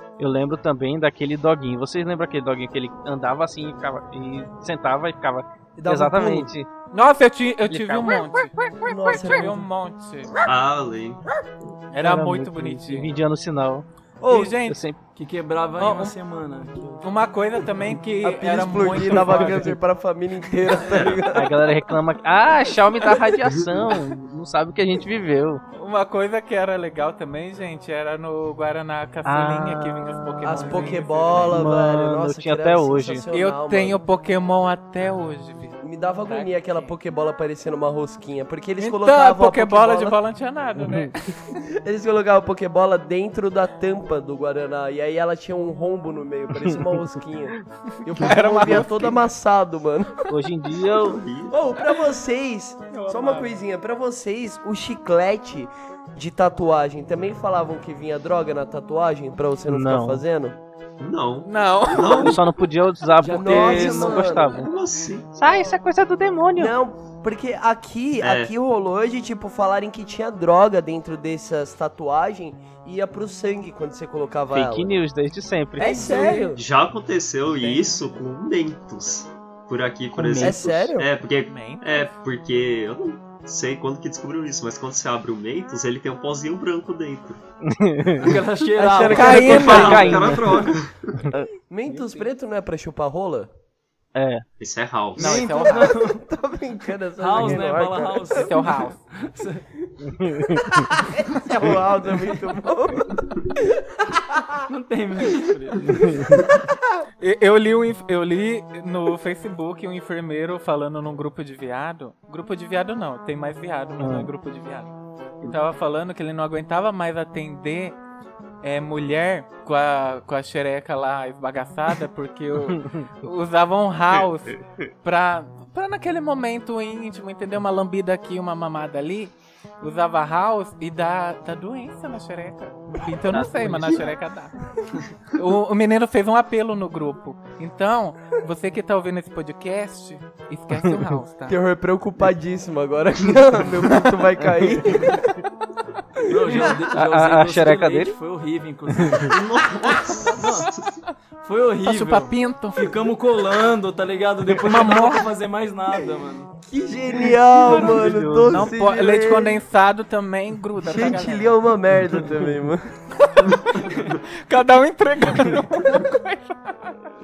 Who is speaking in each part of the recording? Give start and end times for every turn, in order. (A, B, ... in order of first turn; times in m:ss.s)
0:00.2-0:06.7 A
0:05.8-0:06.5 B
0:06.9-0:10.3 C
0:07.7-0:08.3 A
0:08.8-0:09.7 B
0:10.4-0:11.2 D
0:11.9-0:13.1 C
0:11.9-0:13.8 A
0:14.2-0:14.6 B
0:14.3-0:14.8 C
0:14.6-0:15.0 A
0:15.1-0:17.0 E
0:15.8-0:16.1 C
0:17.0-0:19.7 C
0:18.2-0:21.7 B
0:19.0-0:19.6 A
0:20.8-0:21.2 D
0:21.3-0:25.6 A
0:25.7-0:31.7 C
0:29.2-0:33.2 A
0:30.4-0:34.0 B
0:33.3-0:36.9 C
0:35.8-0:40.2 B
0:38.8-0:41.4 C
0:40.8-0:41.1 A
0:41.5-0:50.3 B
0:48.2-0:49.3 C
0:50.3-0:51.2 A
0:51.0-0:51.5 D
0:51.5-1:00.6 B
0:52.9-0:53.6 C
0:59.7-1:00.2 A
1:01.0-1:02.4 D
1:01.4-1:02.4 C
1:02.2-1:04.7 A
1:03.2-1:04.5 E
1:03.2-1:04.6 B
1:04.4-1:05.3 D
1:05.3-1:06.7 A
1:06.6-1:14.9 B
1:08.2-1:08.5 D
1:14.5-1:16.4 A
1:15.8-1:16.6 B
1:15.8-1:16.5 C
1:16.5-1:27.4 D
1:17.5-1:18.0 C
1:20.1-1:20.6 A
1:20.4-1:21.1 B
1:21.5-1:22.1 C
1:27.6-1:28.4 A
1:28.2-1:30.7 E
1:28.8-1:30.3 B
1:29.0-1:30.0 C
1:29.0-1:31.4 A
1:29.4-1:31.2 D
1:31.6-1:33.5 B
1:31.8-1:32.2 C
1:34.1-1:34.4 A
1:34.6-1:35.5 D
1:35.2-1:36.2 E
1:35.2-1:36.0 C
1:35.5-1:38.5 B
1:37.2-1:39.6 E
1:38.3-1:39.0 C
1:40.0-1:40.8 A
1:40.2-1:44.6 B
1:44.7-1:46.4 E
1:45.9-1:46.4 A
1:46.1-1:46.8 B
1:47.2-1:58.0 C
1:54.0-1:54.3 A
1:58.6-2:14.6 C
2:02.6-2:03.1 A
2:13.1-2:14.1 A
2:15.3-2:21.6 C
2:21.5-2:25.2 B
2:24.4-2:25.2 A
2:26.3-2:29.6 E
2:26.3-2:26.7 B
2:26.9-2:28.2 A
2:29.0-2:29.3 A
2:29.3-2:31.0 D
2:30.3-2:30.7 E
2:31.4-2:36.5 E
2:31.8-2:32.9 C
2:34.6-2:35.3 C
2:36.6-2:39.6 B
2:37.7-2:41.5 C
2:37.7-2:38.7 A
2:40.8-2:42.9 B
2:43.2-2:46.9 C